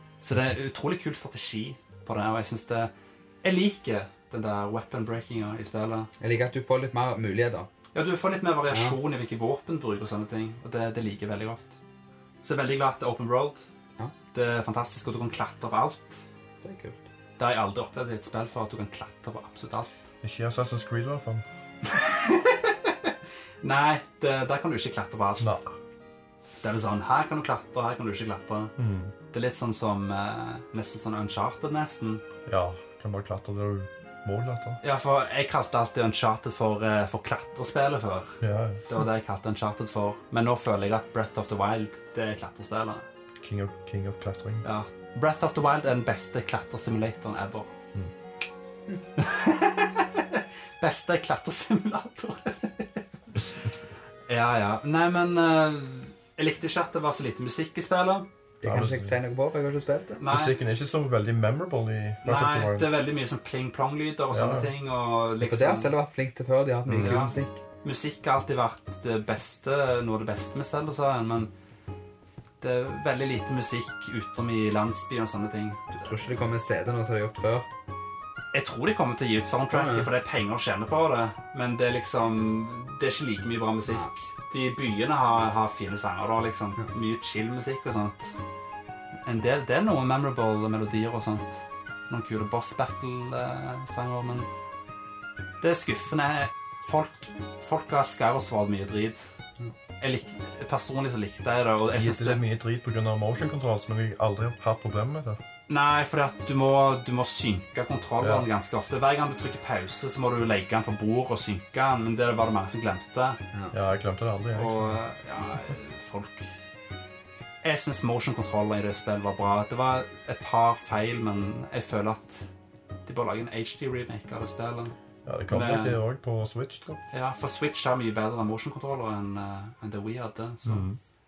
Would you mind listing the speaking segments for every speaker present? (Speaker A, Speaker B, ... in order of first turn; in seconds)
Speaker A: 0.2-2.9, 3.4-6.1, 7.9-11.8, 12.4-13.6, 14.3-16.2, 17.4-19.9, 21.8-25.6, 26.6-28.7, 29.3-32.2, 34.8-43.0, 44.6-47.7, 49.2-53.7, 54.3-58.3, 60.2-60.6, 62.2-65.9, 66.9-71.5, 72.6-76.1, 78.5-88.4, 89.2-94.5, 95.6-99.3, 100.0-102.4, 105.7-113.4, 114.5-116.5, 117.6-122.5, 123.0-124.9, 125.5-126.0, 127.1-130.9
Speaker B: 6.2-7.7, 8.7-9.0, 16.6-17.0, 58.6-60.2, 65.4-67.6, 76.0-77.7, 79.7-80.1
Speaker C: 20.2-21.4, 25.4-25.7, 28.8-29.1, 32.5-34.8, 38.4-38.8, 43.4-44.6, 58.6-59.2, 60.3-62.9, 64.3-64.7, 66.9-67.2, 101.9-105.4, 108.2-108.5, 113.7-115.0, 125.2-127.0, 130.6-131.0